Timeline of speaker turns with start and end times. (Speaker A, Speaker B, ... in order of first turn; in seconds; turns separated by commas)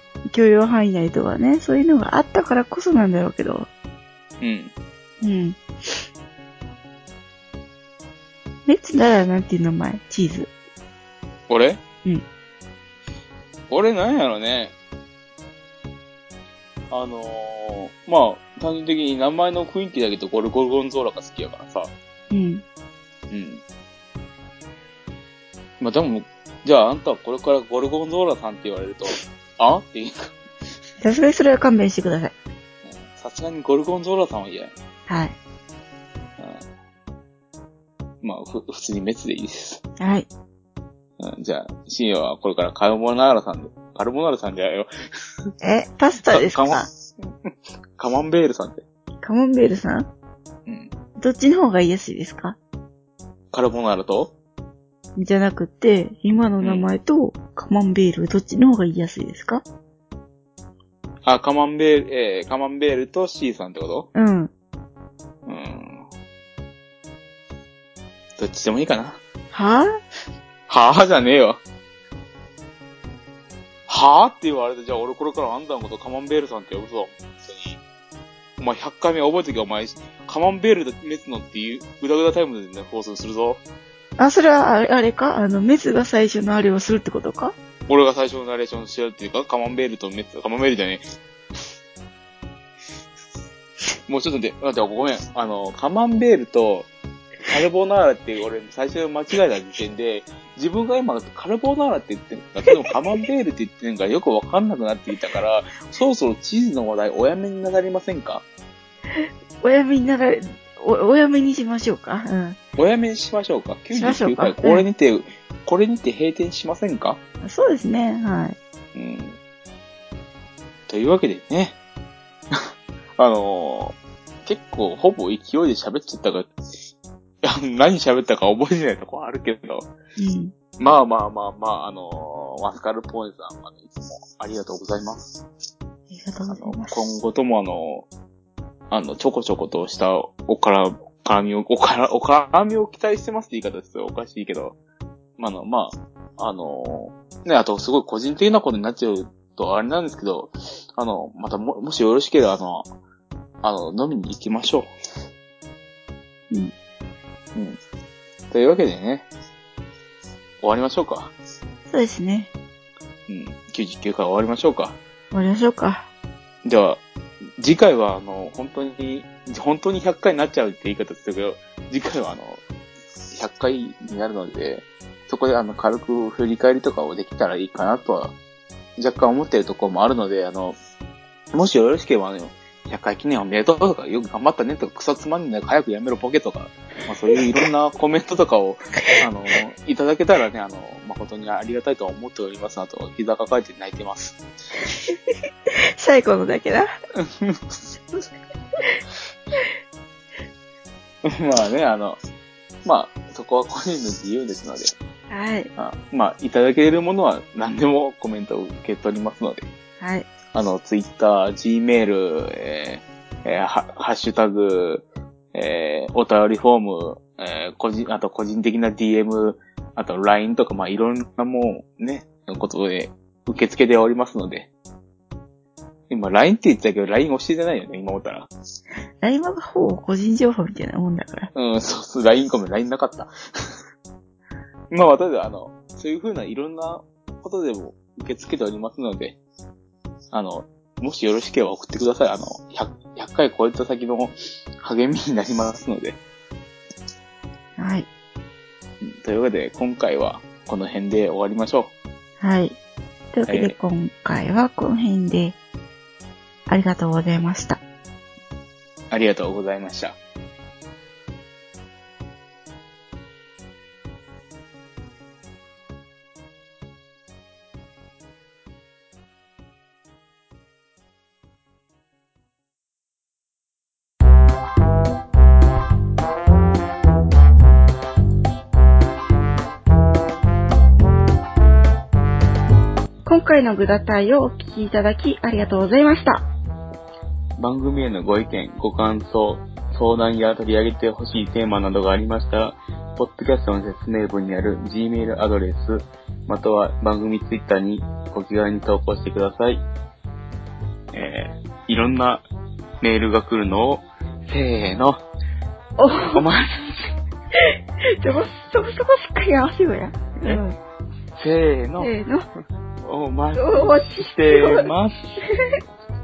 Speaker A: 0.3-3.7, Speaker B: 4.4-4.7, Speaker A: 5.2-6.0, Speaker A: 8.7-10.5, Speaker B: 11.5-11.8, Speaker B: 13.7-14.7, Speaker B: 16.9-21.9, Speaker A: 22.3-22.6, Speaker B: 23.3-23.6, Speaker B: 25.8-30.4, Speaker A: 31.0-32.3, Speaker B: 32.8-34.7, Speaker A: 35.1-35.3, Speaker B: 36.4-36.6, Speaker B: 38.2-39.8, Speaker A: 40.0-40.3, Speaker B: 41.2-44.9, Speaker A: 45.6-46.9, Speaker B: 46.3-48.8, Speaker A: 49.2-50.1, Speaker B: 50.7-50.9, Speaker A: 51.2-52.6, Speaker B: 53.5-54.3, Speaker A: 55.1-59.6, Speaker B: 56.6-56.9, Speaker B: 61.2-64.1, Speaker A: 64.1-64.5, Speaker B: 65.5-66.0, Speaker B: 68.4-69.2, Speaker A: 69.5-70.0, Speaker B: 70.7-71.6, Speaker B: 73.9-77.8, Speaker B: 78.6-83.6, Speaker A: 84.2-87.5, Speaker B: 87.9-91.0, Speaker B: 94.1-96.9, Speaker B: 97.4-108.4, Speaker A: 109.1-112.6, Speaker B: 112.8-117.2, Speaker A: 113.9-114.8, Speaker A: 117.4-118.6, Speaker B: 118.9-119.4, Speaker B: 120.9-121.8, Speaker B: 123.2-126.5, Speaker B: 127.4-129.9, Speaker A: 130.2-130.5, Speaker B: 130.8-135.4, Speaker A: 136.1-137.0, Speaker B: 136.5-138.1, Speaker B: 138.9-144.8, Speaker B: 145.4-152.9, Speaker B: 153.6-154.9, Speaker B: 158.5-159.3, Speaker B: 160.6-161.3, Speaker A: 161.9-162.5, Speaker B: 163.3-165.0, Speaker A: 165.3-166.1, Speaker B: 166.6-167.0, Speaker B: 167.6-172.6, Speaker B: 173.3-178.3, Speaker B: 179.0-180.8, Speaker B: 181.5-194.4, Speaker A: 194.8-195.2, Speaker A: 195.8-196.9, Speaker B: 197.2-197.8, Speaker B: 201.2-202.2, Speaker B: 202.8-204.9, Speaker A: 205.3-205.7, Speaker B: 205.8-209.7, Speaker A: 210.0-210.3, Speaker B: 210.5-224.7, Speaker B: 226.1-228.5, Speaker A: 229.2-231.5, Speaker B: 231.5-233.3, Speaker B: 234.9-239.4, Speaker B: 240.3-246.2, Speaker A: 247.8-248.1, Speaker B: 249.0-251.9, Speaker A: 252.4-252.8, Speaker A: 253.3-255.6, Speaker B: 253.5-253.7, Speaker A: 256.7-257.8, Speaker B: 259.1-260.2, Speaker A: 283.2-286.5, Speaker B: 287.6-299.8, Speaker B: 301.1-302.4, Speaker B: 303.0-305.2, Speaker A: 306.0-306.4, Speaker B: 306.3-307.1, Speaker A: 308.2-310.8, Speaker B: 311.4-312.1, Speaker A: 312.0-312.4, Speaker B: 313.0-315.2, Speaker A: 313.5-314.9